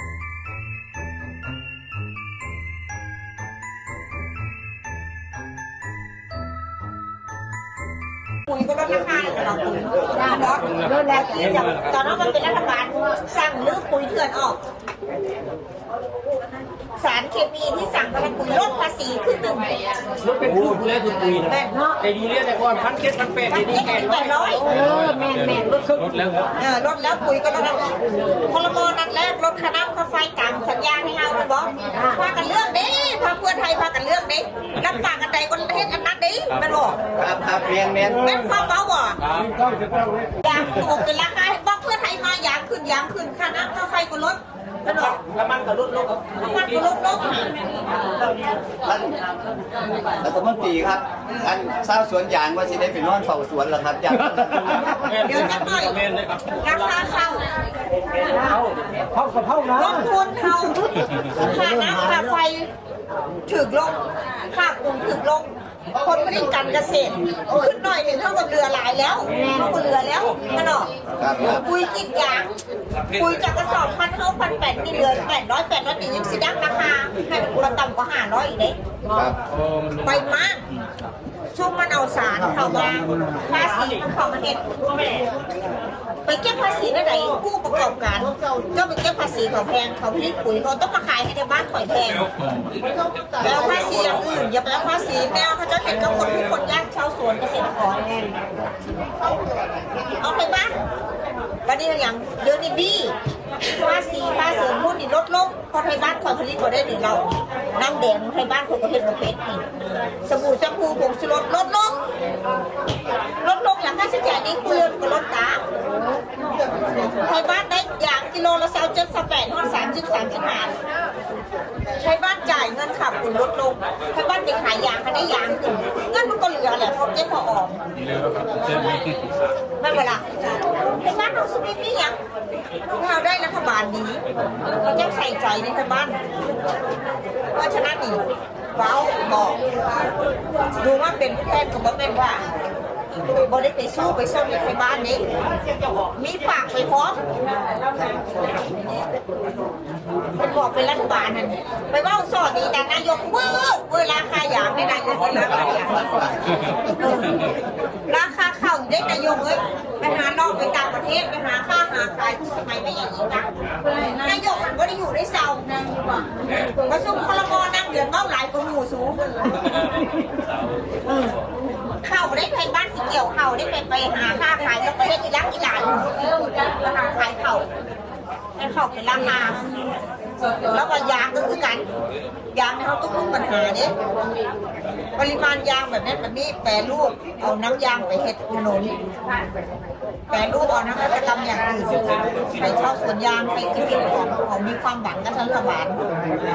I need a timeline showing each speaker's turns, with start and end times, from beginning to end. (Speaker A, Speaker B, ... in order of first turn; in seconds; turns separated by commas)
Speaker A: 8.5-14.6, Speaker A: 17.0-19.8, Speaker B: 20.2-21.4, Speaker A: 21.4-22.0, Speaker B: 22.0-23.5, Speaker A: 23.4-24.9, Speaker B: 24.9-26.4, Speaker A: 26.5-37.0, Speaker C: 37.2-38.2, Speaker A: 38.2-39.4, Speaker A: 40.4-45.2, Speaker B: 45.6-46.1, Speaker A: 46.2-47.5, Speaker C: 48.8-49.2, Speaker C: 50.2-55.1, Speaker A: 55.2-57.5, Speaker B: 56.0-56.2, Speaker A: 59.7-62.7, Speaker A: 63.5-70.9, Speaker C: 71.2-71.6, Speaker A: 71.4-72.5, Speaker A: 73.1-78.8, Speaker C: 79.1-79.4, Speaker A: 80.0-80.7, Speaker A: 81.5-84.7, Speaker A: 86.3-92.3, Speaker A: 93.4-98.4, Speaker A: 100.2-100.8, Speaker A: 101.7-109.7, Speaker A: 110.2-112.0, Speaker A: 113.4-115.6, Speaker A: 117.0-120.8, Speaker A: 122.0-127.8, Speaker A: 129.8-132.2, Speaker A: 132.9-136.2, Speaker A: 137.5-138.2, Speaker A: 138.7-139.6, Speaker A: 140.8-142.5, Speaker A: 143.3-145.3, Speaker A: 146.1-147.2, Speaker A: 150.3-156.3, Speaker A: 157.0-157.5, Speaker A: 158.1-165.9, Speaker A: 166.7-169.9, Speaker A: 171.9-177.7, Speaker A: 178.6-179.7, Speaker A: 180.6-181.9, Speaker A: 182.5-183.9, Speaker A: 185.2-189.0, Speaker A: 190.3-196.0